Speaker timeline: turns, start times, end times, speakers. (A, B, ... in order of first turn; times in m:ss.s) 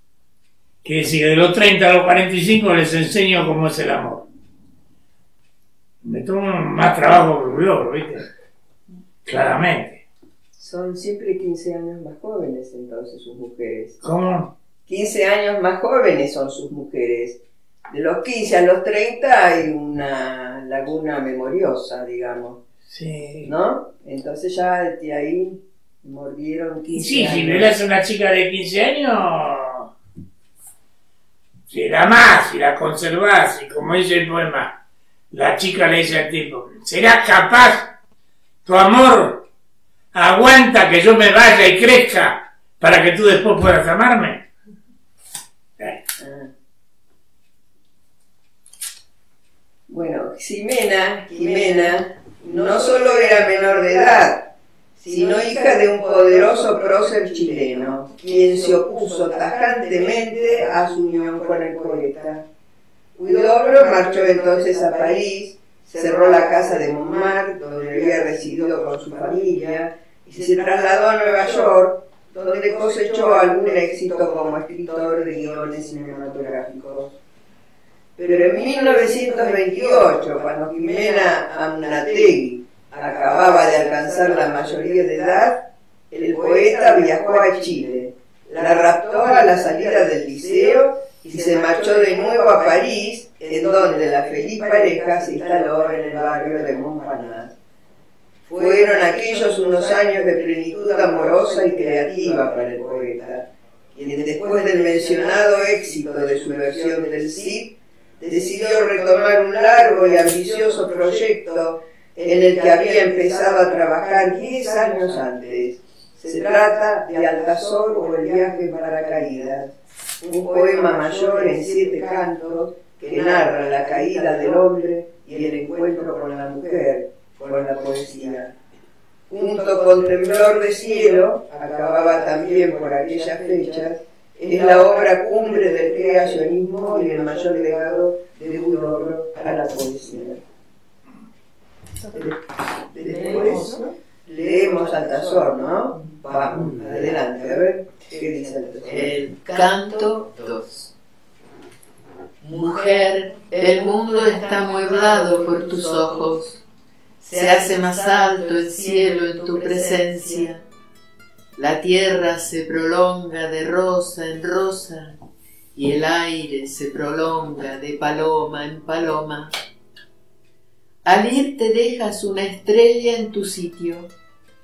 0:00.8-0:04.3 A
0:06.0-0:08.2 A
0:09.2-0:10.0 A
0:10.6-0:14.0 B
0:14.0-0:14.5 A
0:14.9-0:22.6 B
0:22.9-0:23.5 A
0:23.4-0:27.7 B
0:26.9-0:29.9 A
0:31.7-0:34.7 A
0:35.3-0:37.9 A
0:38.6-0:39.4 A
0:40.1-0:44.4 A
0:46.2-0:46.5 B
0:49.9-1:02.4 B
1:03.2-1:17.2 B
1:18.2-1:37.6 B
1:38.5-2:08.5 B
2:09.3-2:20.4 B
2:22.1-2:22.4 B
2:22.9-2:29.3 B
2:28.9-2:30.9 C
2:32.4-2:36.6 C
2:37.3-2:40.6 C
2:41.6-2:45.2 C
2:45.8-2:49.5 C
2:51.0-2:54.1 C